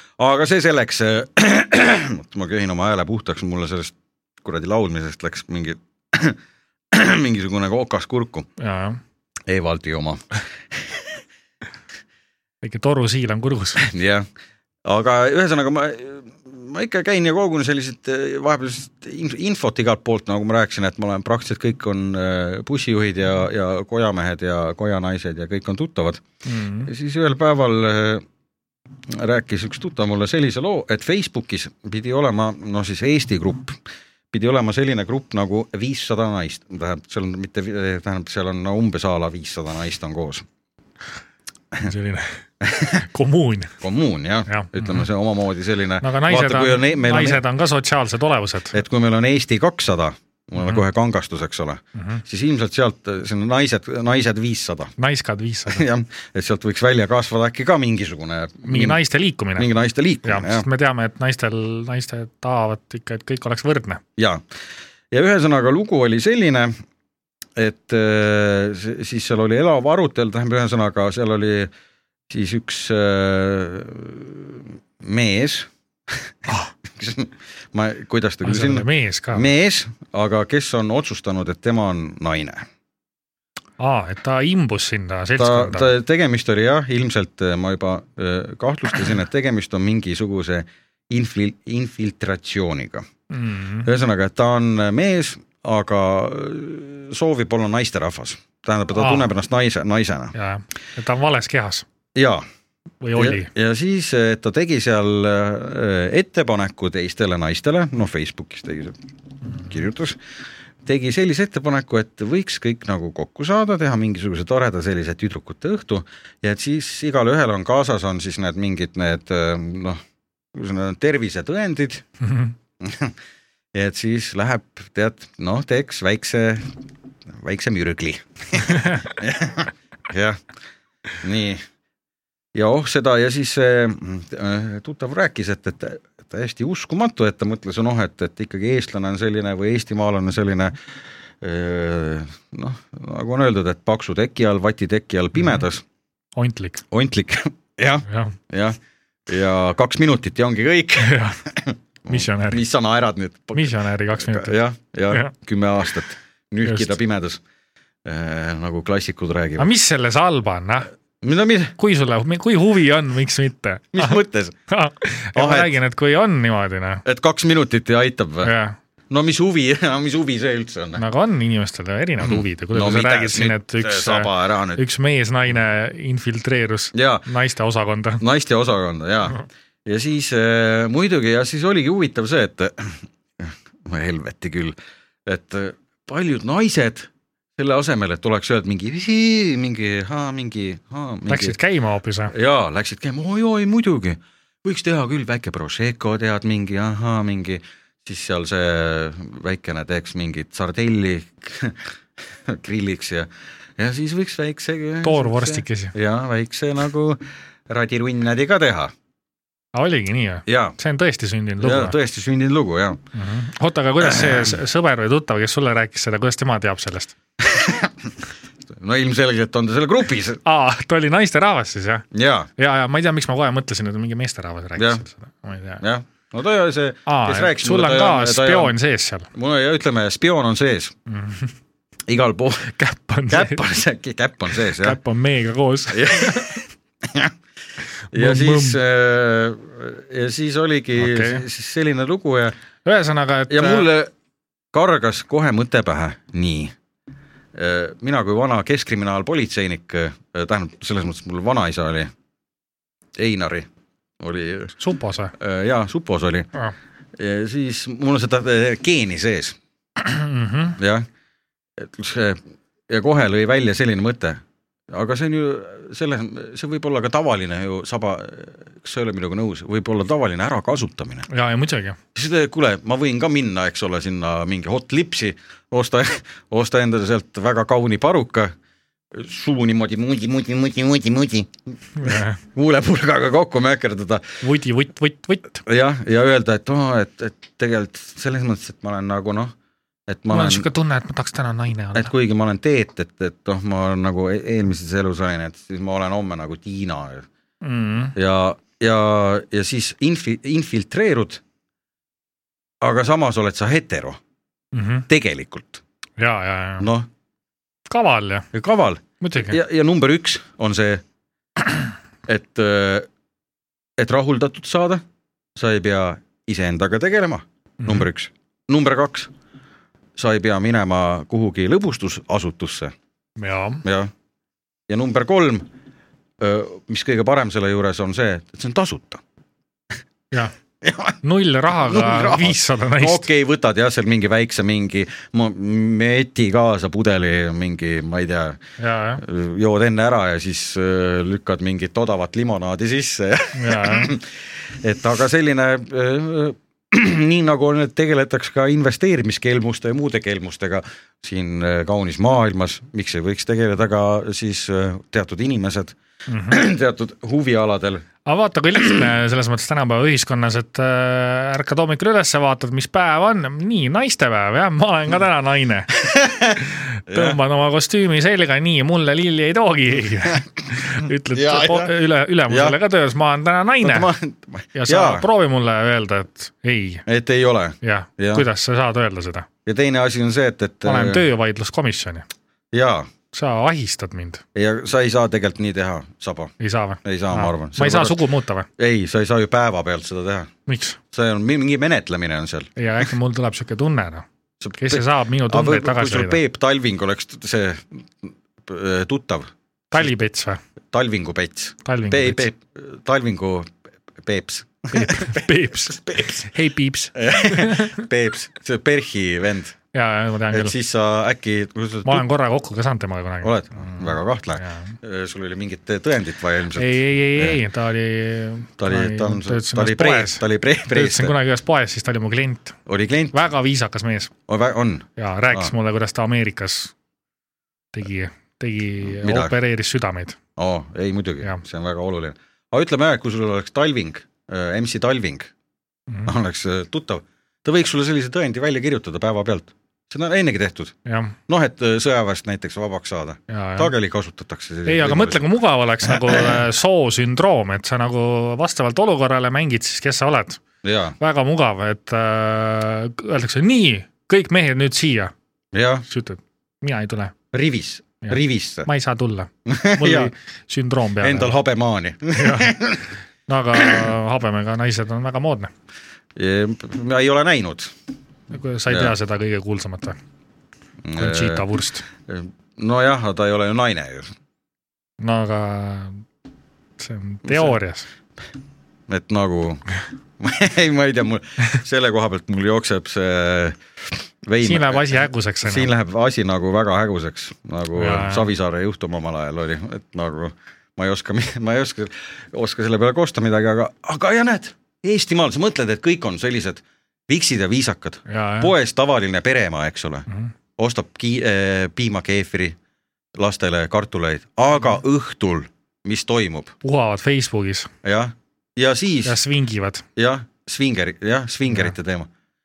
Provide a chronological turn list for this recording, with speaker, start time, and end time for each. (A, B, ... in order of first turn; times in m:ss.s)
0:00.2-0:06.4 A
0:06.9-0:08.5 A
0:08.6-0:09.0 B
0:09.5-0:11.0 A
0:12.6-0:13.9 B
0:13.8-0:14.3 A
0:14.8-0:26.2 A
0:26.5-0:26.9 B
0:26.8-0:28.2 A
0:29.1-0:33.8 A
0:34.3-0:40.4 A
0:41.8-0:43.8 B
0:42.6-0:43.0 A
0:43.8-0:47.4 A
0:44.5-0:45.1 B
0:46.0-0:48.8 B
0:48.7-0:54.9 A
0:52.0-0:52.2 B
0:55.0-0:55.8 B
0:55.7-0:59.0 A
0:58.6-0:59.7 B
0:59.6-1:00.7 A
1:00.2-1:04.0 B
1:04.2-1:04.4 A
1:05.1-1:06.7 A
1:07.6-1:11.7 A
1:12.3-1:16.2 A
1:16.9-1:22.7 A
1:18.4-1:19.5 B
1:23.8-1:25.9 B
1:25.4-1:33.1 A
1:33.3-1:33.9 B
1:33.8-1:40.3 A
1:38.9-1:39.3 B
1:40.3-1:41.9 B
1:42.2-1:42.4 A
1:43.0-1:43.5 B
1:43.2-1:49.0 A
1:49.6-1:50.2 A
1:50.8-2:00.0 A
2:00.5-2:02.0 A
2:02.2-2:02.5 B
2:02.8-2:03.1 A
2:03.7-2:06.7 A
2:07.3-2:10.4 A
2:08.7-2:09.0 B
2:11.2-2:11.6 A
2:12.5-2:20.8 A
2:21.4-2:25.8 A
2:26.4-2:26.8 B
2:26.9-2:37.4 A
2:28.1-2:28.4 B
2:31.0-2:31.4 B
2:32.1-2:32.6 B
2:33.6-2:34.6 B
2:36.6-2:36.9 B
2:38.0-2:39.7 A
2:39.6-2:40.9 B
2:41.2-2:41.8 A
2:41.8-2:44.2 B
2:43.9-2:44.6 A
2:44.7-2:47.0 B
2:45.4-2:45.7 A
2:47.0-2:48.5 A
2:48.4-2:48.8 B
2:49.1-2:51.0 A
2:51.0-2:58.2 B
2:52.2-2:54.8 A
2:56.9-2:57.2 A
2:58.2-3:11.6 A
3:11.3-3:12.3 B
3:12.3-3:21.9 A
3:22.4-3:28.9 A
3:25.0-3:25.9 B
3:29.7-3:32.0 B
3:30.5-3:30.8 A
3:31.6-3:33.0 A
3:33.1-3:37.1 B
3:34.0-3:34.5 A
3:37.4-3:38.1 A
3:38.7-3:40.4 A
3:40.4-3:42.1 B
3:42.1-3:42.5 A
3:42.6-3:45.8 B
3:45.8-3:48.7 A
3:47.1-3:49.3 B
3:49.3-3:51.0 A
3:51.1-3:51.5 B
3:52.1-3:52.7 A
3:52.7-3:53.6 B
3:53.3-3:55.0 A
3:54.7-3:56.6 B
3:55.9-3:57.3 A
3:58.1-3:58.8 B
3:58.1-4:02.6 A
4:01.0-4:01.4 B
4:02.8-4:03.9 B
4:03.5-4:04.1 A
4:04.7-4:06.7 A
4:07.6-4:12.1 A
4:13.2-4:13.7 A
4:14.2-4:14.8 A
4:14.8-4:15.3 B
4:15.3-4:16.5 A
4:17.2-4:19.6 A
4:20.0-4:20.8 B
4:20.8-4:21.1 A
4:21.8-4:31.3 A
4:31.3-4:32.0 B
4:32.2-4:38.5 A
4:39.1-4:44.4 A
4:42.0-4:42.4 B
4:44.4-4:45.6 B
4:45.6-4:49.5 A
4:50.1-4:50.7 A
4:50.3-4:52.1 B
4:51.9-4:57.3 A
4:57.6-4:58.2 B
4:58.2-5:01.4 A
5:02.8-5:04.2 A
5:04.7-5:05.1 B
5:05.1-5:05.8 A
5:06.2-5:06.9 B
5:06.8-5:07.1 A
5:07.9-5:08.5 B
5:08.5-5:11.0 A
5:09.2-5:09.6 B
5:12.3-5:13.1 A
5:14.0-5:15.0 A
5:15.6-5:19.3 A
5:17.8-5:18.1 B
5:20.2-5:23.0 A
5:23.4-5:23.8 B
5:23.8-5:24.1 A
5:24.9-5:25.7 A
5:26.4-5:29.2 A
5:30.8-5:31.2 A
5:31.2-5:33.3 B
5:31.8-5:38.6 A
5:38.8-5:39.2 B
5:39.2-5:56.0 A
5:43.6-5:44.2 B
5:56.3-5:56.6 B
5:56.5-5:58.0 A
5:58.3-6:06.0 B
6:06.0-6:07.4 A
6:06.6-6:14.1 B
6:11.3-6:12.0 A
6:12.5-6:12.8 A
6:13.8-6:15.3 A
6:14.8-6:17.0 B
6:17.1-6:18.5 A
6:17.8-6:19.5 B
6:19.6-6:21.3 A
6:20.8-6:22.2 B
6:22.7-6:23.1 A
6:23.3-6:24.4 B
6:24.6-6:28.2 A
6:26.6-6:28.7 B
6:28.8-6:30.5 A
6:30.7-6:31.0 B
6:31.1-6:32.7 A
6:32.8-6:34.2 B
6:34.6-6:40.1 A
6:34.8-6:36.4 B
6:39.9-6:40.6 B
6:40.9-6:46.5 A
6:41.8-6:42.5 B
6:44.9-6:48.0 B
6:47.2-6:49.8 A
6:49.9-6:50.7 B
6:50.5-6:52.3 A
6:52.0-6:55.0 B
6:53.4-6:57.6 A
6:56.8-7:02.8 B
6:58.8-7:01.4 A
7:02.9-7:03.4 A
7:03.3-7:04.3 B
7:04.5-7:05.7 A
7:05.2-7:06.9 B
7:07.9-7:10.4 B
7:09.1-7:09.5 A
7:10.6-7:15.5 A
7:16.3-7:21.0 A
7:21.1-7:21.4 B
7:21.5-7:25.4 A
7:23.5-7:23.9 B
7:24.9-7:30.6 B
7:26.1-7:26.5 A
7:30.8-7:31.2 A
7:31.2-7:35.3 B
7:35.7-7:36.0 A
7:36.1-7:37.3 B
7:37.5-7:38.9 A
7:38.2-7:41.6 B
7:39.7-7:40.3 A
7:41.2-7:43.1 A
7:42.4-7:42.8 B
7:43.5-7:45.7 B
7:43.8-7:44.1 A
7:46.4-7:47.9 A
7:48.5-7:50.2 B
7:48.9-7:49.1 A
7:51.0-7:51.6 A
7:51.2-7:52.0 B
7:52.3-7:54.3 A
7:55.2-7:56.2 B
7:57.0-7:58.1 B
7:57.5-7:57.8 A
7:59.1-7:59.8 A
8:00.4-8:22.8 A
8:04.6-8:05.9 B
8:08.0-8:08.5 B
8:18.3-8:18.7 B
8:23.4-8:26.7 A
8:26.8-8:27.9 B
8:28.0-8:29.4 A
8:29.2-8:30.0 B
8:30.2-8:32.3 A